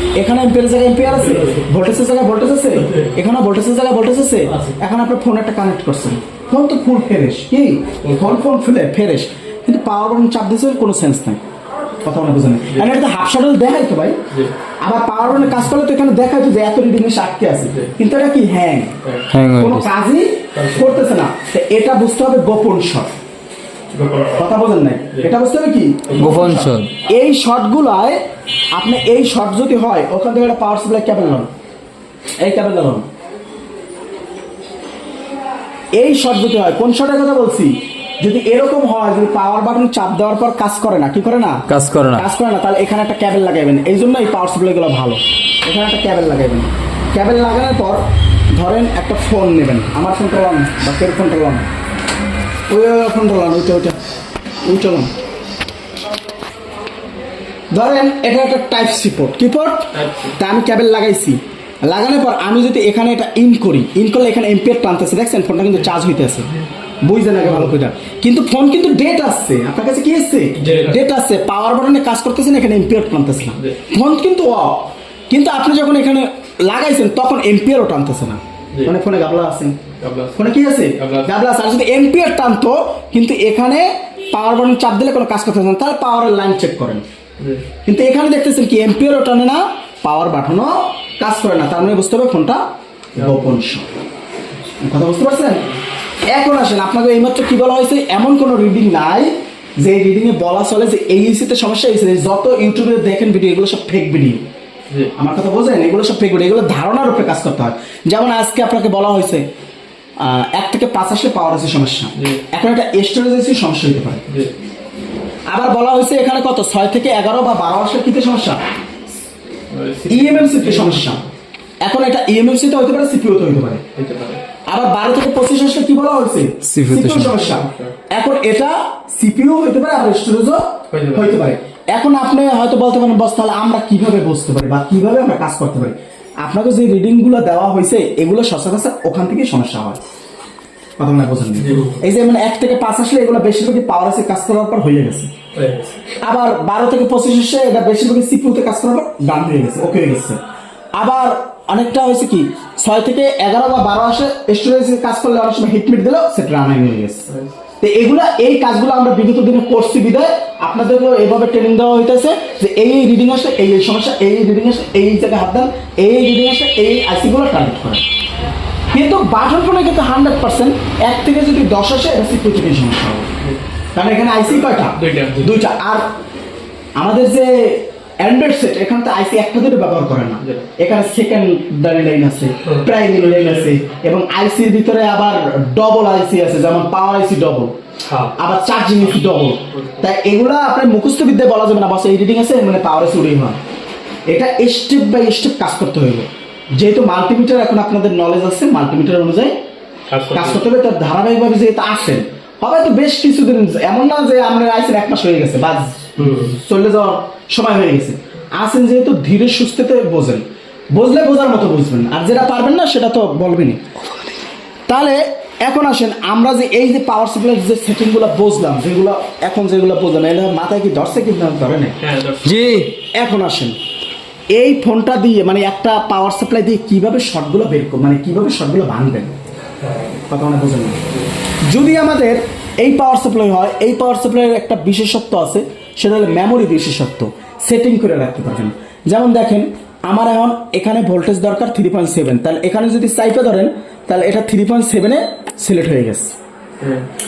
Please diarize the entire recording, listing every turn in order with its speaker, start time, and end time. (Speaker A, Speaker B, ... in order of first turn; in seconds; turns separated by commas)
Speaker A: 0.2-11.4, Speaker B: 1.1-1.6, Speaker B: 4.5-4.8, Speaker B: 8.0-8.4, Speaker A: 12.0-14.2, Speaker A: 14.8-19.0, Speaker C: 19.3-19.9, Speaker A: 19.6-23.1, Speaker B: 20.5-21.1, Speaker B: 23.9-24.4, Speaker A: 24.4-28.2, Speaker C: 26.2-26.9, Speaker A: 28.7-31.5, Speaker A: 32.4-33.1, Speaker A: 35.9-41.6, Speaker C: 41.7-42.2, Speaker A: 42.1-48.0, Speaker A: 48.5-51.6, Speaker A: 52.7-54.0, Speaker A: 54.6-55.1, Speaker A: 57.7-66.5, Speaker B: 59.9-60.3, Speaker A: 67.0-79.7, Speaker B: 67.5-67.7, Speaker B: 70.6-71.1, Speaker B: 80.0-81.3, Speaker A: 80.3-87.0, Speaker B: 87.4-87.6, Speaker A: 87.8-92.6, Speaker A: 93.2-93.9, Speaker B: 93.2-93.5, Speaker A: 94.8-95.7, Speaker A: 96.3-104.4, Speaker A: 105.2-109.4, Speaker A: 110.2-114.2, Speaker B: 114.3-114.5, Speaker A: 115.5-118.6, Speaker B: 119.7-121.3, Speaker A: 120.1-121.2, Speaker A: 121.8-123.8, Speaker B: 124.0-124.4, Speaker A: 124.7-140.0, Speaker C: 126.6-127.4, Speaker B: 127.3-127.9, Speaker B: 130.9-131.4, Speaker A: 141.0-145.3, Speaker B: 141.6-142.0, Speaker B: 145.5-146.0, Speaker A: 146.2-150.4, Speaker A: 150.9-157.3, Speaker A: 157.8-168.0, Speaker A: 168.9-173.3, Speaker A: 173.9-176.0, Speaker B: 174.5-175.6, Speaker A: 177.0-187.7, Speaker B: 182.6-183.8, Speaker B: 188.0-188.4, Speaker A: 188.4-193.6, Speaker B: 189.0-190.0, Speaker A: 194.3-199.5, Speaker B: 200.1-200.7, Speaker A: 200.3-213.8, Speaker B: 206.2-206.6, Speaker A: 214.9-221.9, Speaker B: 222.0-222.8, Speaker C: 222.4-222.9, Speaker A: 223.1-223.7, Speaker A: 224.5-229.3, Speaker B: 229.8-230.1, Speaker A: 230.3-231.0, Speaker A: 231.7-246.3, Speaker B: 246.8-247.0